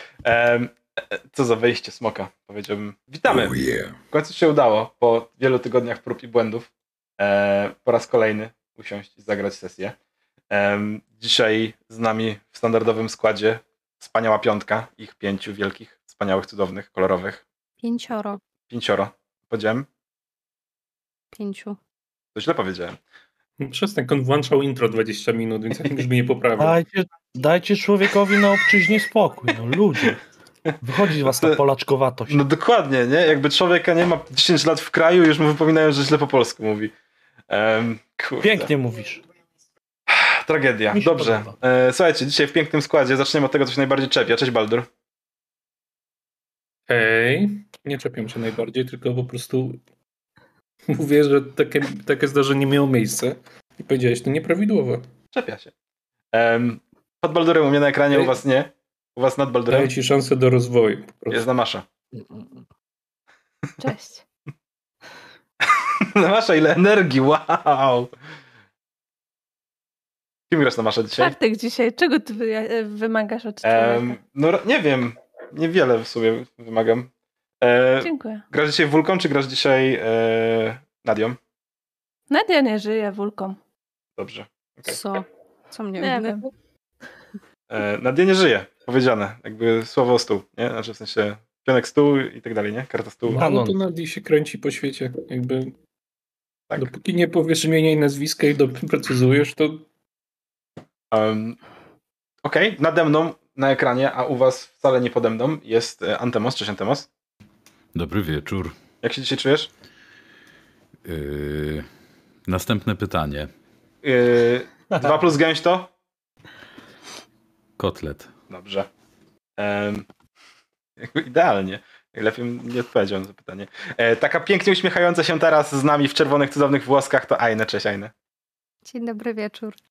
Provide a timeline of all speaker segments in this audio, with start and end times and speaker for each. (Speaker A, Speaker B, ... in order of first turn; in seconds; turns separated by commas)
Speaker A: 0.2-3.6, Speaker B: 3.3-3.9, Speaker A: 4.1-9.9, Speaker A: 10.5-17.4, Speaker C: 17.8-18.4, Speaker A: 18.7-19.9, Speaker C: 21.4-21.8, Speaker A: 22.4-23.0, Speaker D: 23.6-26.8, Speaker E: 26.6-30.2, Speaker A: 30.7-31.6, Speaker E: 30.8-32.4, Speaker A: 32.3-36.9, Speaker A: 37.5-38.7, Speaker E: 38.4-39.2, Speaker A: 40.1-44.9, Speaker E: 40.9-41.5, Speaker D: 46.9-49.8, Speaker D: 50.9-55.0, Speaker A: 55.3-55.7, Speaker A: 56.3-59.9, Speaker D: 59.7-61.5, Speaker A: 61.3-61.9, Speaker F: 63.8-64.2, Speaker A: 65.6-68.1, Speaker A: 70.5-71.3, Speaker F: 71.2-74.2, Speaker A: 73.6-81.4, Speaker F: 78.0-78.4, Speaker F: 82.3-83.6, Speaker A: 84.2-85.0, Speaker C: 84.9-86.5, Speaker F: 86.0-86.4, Speaker A: 87.7-93.5, Speaker D: 93.3-95.7, Speaker E: 93.3-93.8, Speaker D: 96.7-99.8, Speaker A: 101.1-101.6, Speaker A: 102.4-107.1, Speaker B: 107.9-108.8, Speaker A: 109.0-109.7, Speaker B: 111.0-111.8, Speaker B: 112.5-113.5, Speaker A: 114.0-115.9, Speaker B: 117.8-118.3, Speaker A: 118.5-118.9, Speaker A: 119.6-120.0, Speaker A: 121.0-128.1, Speaker C: 128.8-129.8